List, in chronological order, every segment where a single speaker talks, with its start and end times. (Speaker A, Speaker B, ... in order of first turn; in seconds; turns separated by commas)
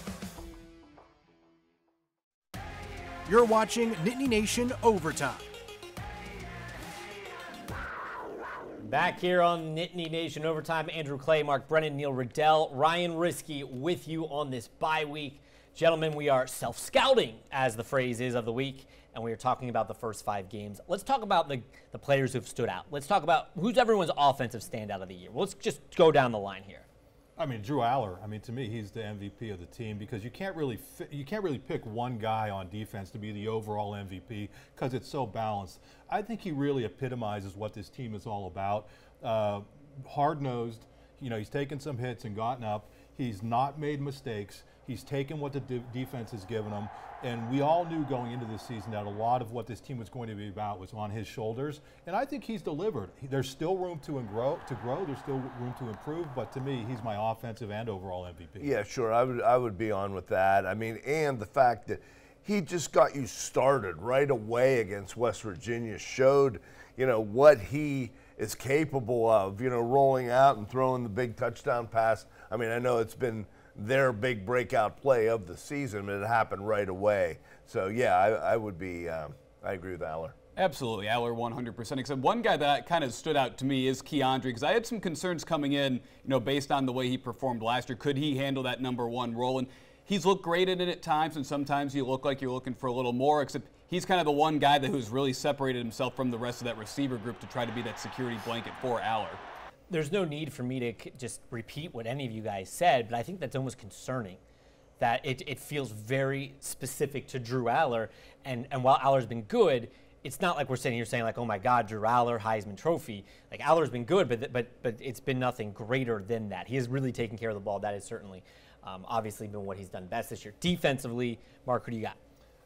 Speaker A: 3.2-5.5, Speaker B: 8.8-26.9, Speaker C: 27.4-58.7, Speaker D: 58.6-80.4, Speaker E: 80.5-99.4, Speaker B: 99.9-104.4, Speaker B: 105.0-122.2